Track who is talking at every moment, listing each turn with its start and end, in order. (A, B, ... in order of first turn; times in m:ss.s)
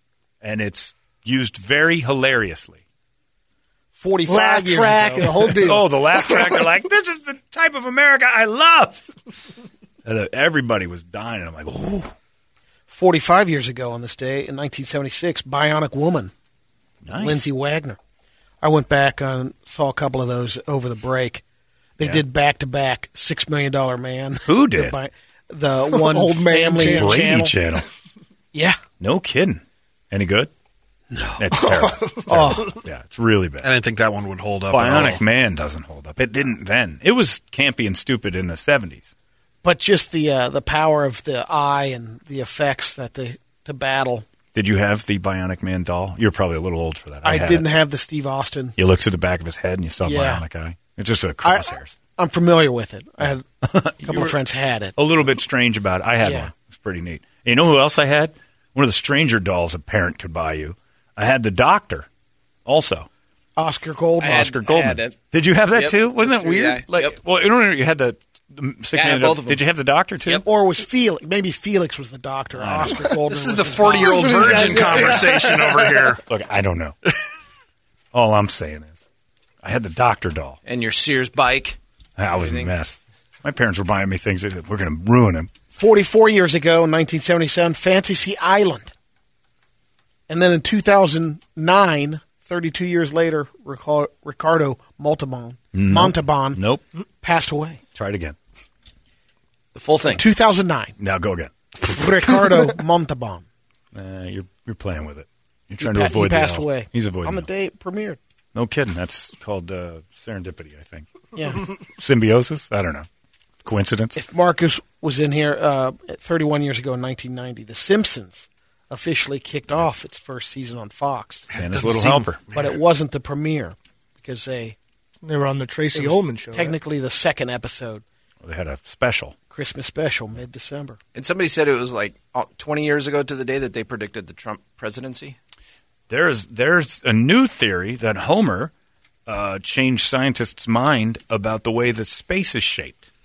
0:00.4-0:02.8 A
0:03.9-0:05.6 B
0:04.3-0:06.6 C
0:05.6-0:09.1 A
0:10.0-0:12.1 A
0:12.9-0:16.3 B
0:17.0-0:17.5 A
0:17.1-0:18.0 B
0:18.6-0:21.4 B
0:22.0-0:27.5 B
0:24.5-0:25.0 A
0:25.9-0:27.5 C
0:26.9-0:27.9 A
0:28.5-0:28.8 B
0:29.0-0:30.5 A
0:31.1-0:32.7 B
0:31.4-0:33.7 A
0:33.6-0:35.2 D
0:34.7-0:39.1 A
0:39.6-0:44.3 B
0:44.5-0:47.7 A
0:47.2-0:48.8 B
0:48.8-0:52.0 A
0:50.0-0:50.4 B
0:51.4-0:53.5 B
0:53.6-0:54.4 A
0:54.0-0:55.0 B
0:55.0-1:02.1 A
0:56.2-0:56.5 B
1:02.7-1:03.1 A
1:03.6-1:04.5 B
1:04.2-1:05.1 E
1:04.3-1:10.4 A
1:05.7-1:07.2 E
1:08.9-1:09.6 E
1:10.4-1:15.0 B
1:12.5-1:13.0 A
1:13.3-1:14.7 E
1:13.4-1:16.2 D
1:14.1-1:15.8 C
1:16.3-1:17.0 A
1:18.1-1:19.0 A
1:19.6-1:20.6 A
1:20.6-1:21.8 E
1:22.2-1:25.5 A
1:22.4-1:22.7 E
1:25.8-1:28.9 B
1:30.3-1:36.6 B
1:35.7-1:36.8 A
1:37.2-1:37.8 B
1:38.0-1:38.4 A
1:39.8-1:40.2 E
1:40.1-1:41.0 B
1:41.0-1:41.5 A
1:41.9-1:43.4 B
1:43.9-1:47.5 A
1:45.8-1:48.2 B
1:48.6-1:51.1 A
1:51.4-1:51.6 B
1:52.0-1:53.1 A
1:53.6-1:54.2 A
1:54.2-2:01.5 B
2:01.5-2:02.4 A
2:01.6-2:02.1 D
2:02.5-2:04.8 B
2:05.2-2:06.8 C
2:05.9-2:08.0 B
2:08.4-2:09.4 A
2:09.5-2:11.0 B
2:11.2-2:15.4 E
2:16.1-2:18.7 A
2:19.3-2:23.1 A